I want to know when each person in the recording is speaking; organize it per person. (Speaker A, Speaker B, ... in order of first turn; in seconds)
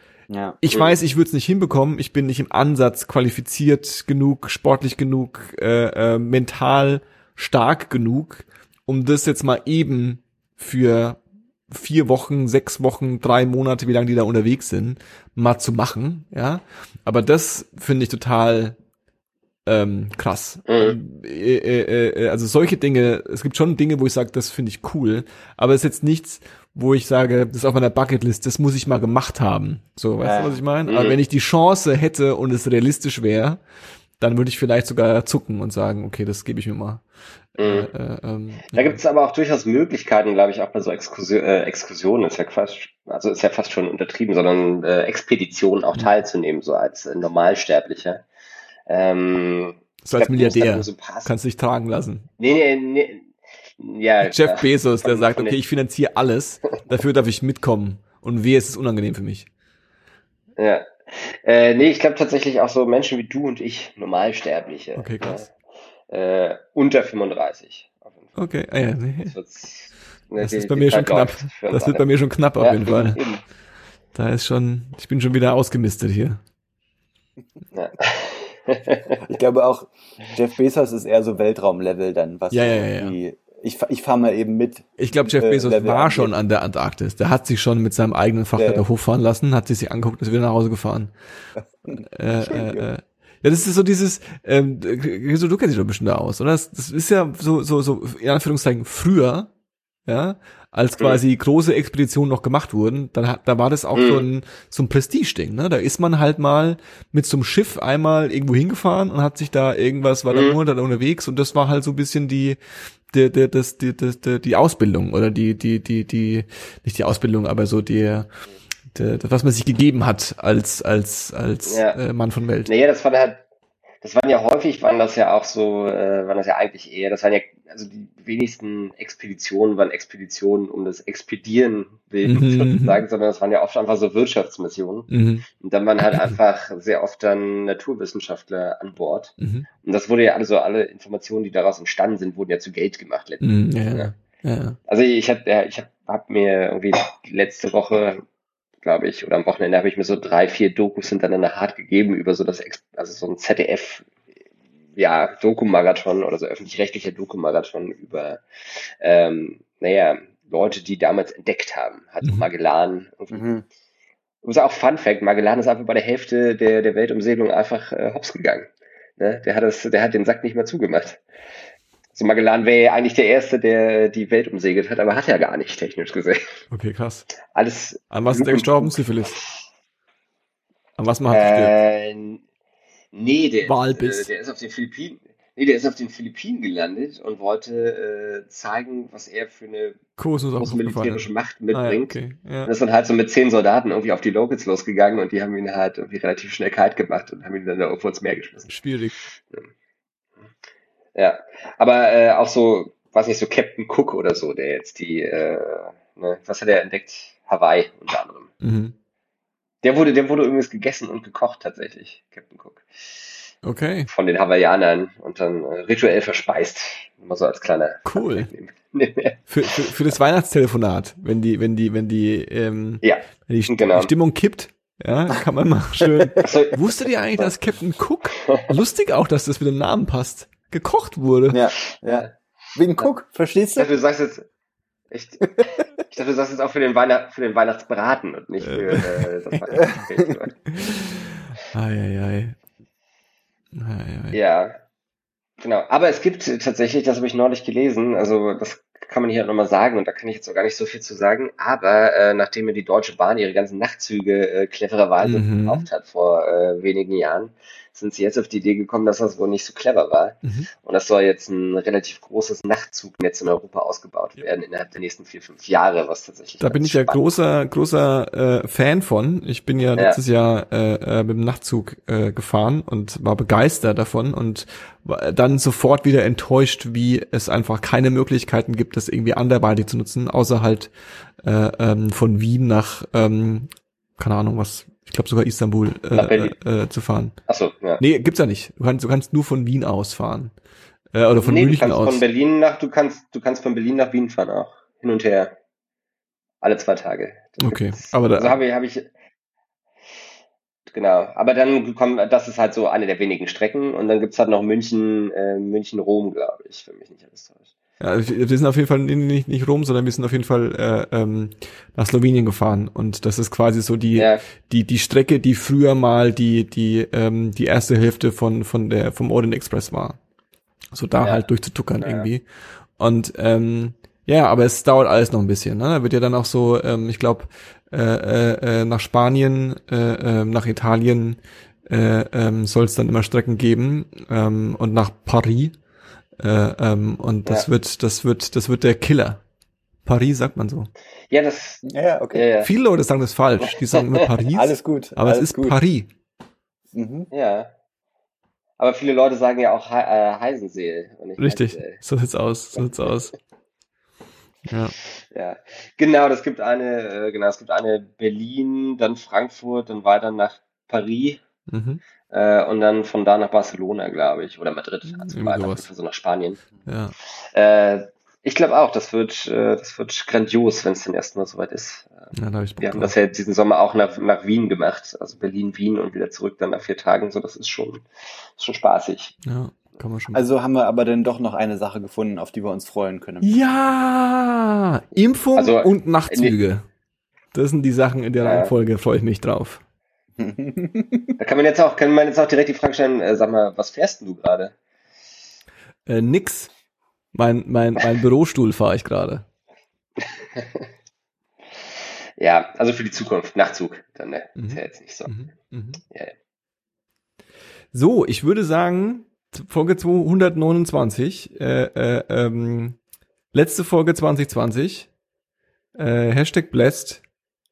Speaker A: 0.3-0.6, 30.2-30.6, 79.2-86.3, 88.5-88.8, 91.7-92.9, 163.3-163.6, 226.0-226.3, 231.5-233.9, 239.7-240.3, 341.8-342.5, 344.5-345.8, 346.9-347.3, 380.3-383.5, 390.4-391.4
Speaker B: 0.6-18.8, 19.6-33.6, 34.2-37.0, 37.6-39.0, 50.0-52.2, 54.2-59.5, 65.0-65.4, 68.3-69.3, 70.4-73.2, 74.1-76.4, 82.5-83.2, 85.0-91.1, 92.0-99.5, 100.0-112.6, 113.1-118.3, 118.9-122.7, 132.2-133.0, 135.1-135.4, 139.4-139.7, 143.4-144.8, 176.7-177.3, 178.1-179.4, 181.0-181.7, 183.6-184.3, 190.2-192.7, 198.7-199.1, 208.6-208.9, 213.6-214.1, 218.1-218.5, 219.5-231.6, 238.6-239.2, 240.7-242.6, 243.7-244.4, 255.2-255.9, 266.6-280.9, 281.4-287.4, 288.0-290.5, 291.1-292.2, 297.6-298.6, 308.0-320.2, 320.9-322.4, 323.0-335.8, 336.4-339.4, 340.0-340.9, 342.6-346.1, 351.4-353.3, 354.6-354.9, 361.7-362.0, 365.1-365.9, 366.9-367.1, 372.3-373.1, 379.4-380.4, 383.4-386.8, 387.5-389.8, 396.1-396.7, 397.3-399.4, 404.6-406.0, 407.9-413.0, 413.5-415.1, 415.9-417.2
Speaker C: 0.7-1.0, 20.7-21.0, 30.9-31.2, 37.6-37.9, 38.7-48.2, 48.9-51.3, 52.4-55.5, 60.6-65.5, 66.1-68.3, 69.3-72.1, 72.6-73.4, 77.7-79.2, 103.9-104.2, 110.3-110.6, 121.6-122.0, 122.7-123.4, 124.0-144.1, 144.9-148.2, 148.8-154.1, 154.9-163.5, 164.4-171.2, 172.1-176.6, 177.5-179.6, 181.3-182.4, 183.1-190.0, 190.6-198.7, 199.4-199.7, 201.1-208.5, 209.8-212.8, 214.1-219.9, 223.0-224.1, 226.4-227.5, 228.3-228.6, 231.9-232.3, 233.8-234.5, 235.1-240.6, 244.3-244.8, 245.6-267.2, 286.1-286.6, 287.5-288.0, 291.4-295.5, 296.6-299.1, 300.9-307.7, 314.1-314.4, 322.0-322.3, 341.3-341.8, 342.3-342.7, 343.6-344.2, 347.3-347.7, 348.8-352.0, 352.7-353.3, 355.2-361.4, 362.3-366.6, 367.2-378.0, 378.6-379.3, 385.6-386.6, 388.4-388.7, 391.4-394.7, 400.2-400.9, 402.4-405.3, 406.0-406.3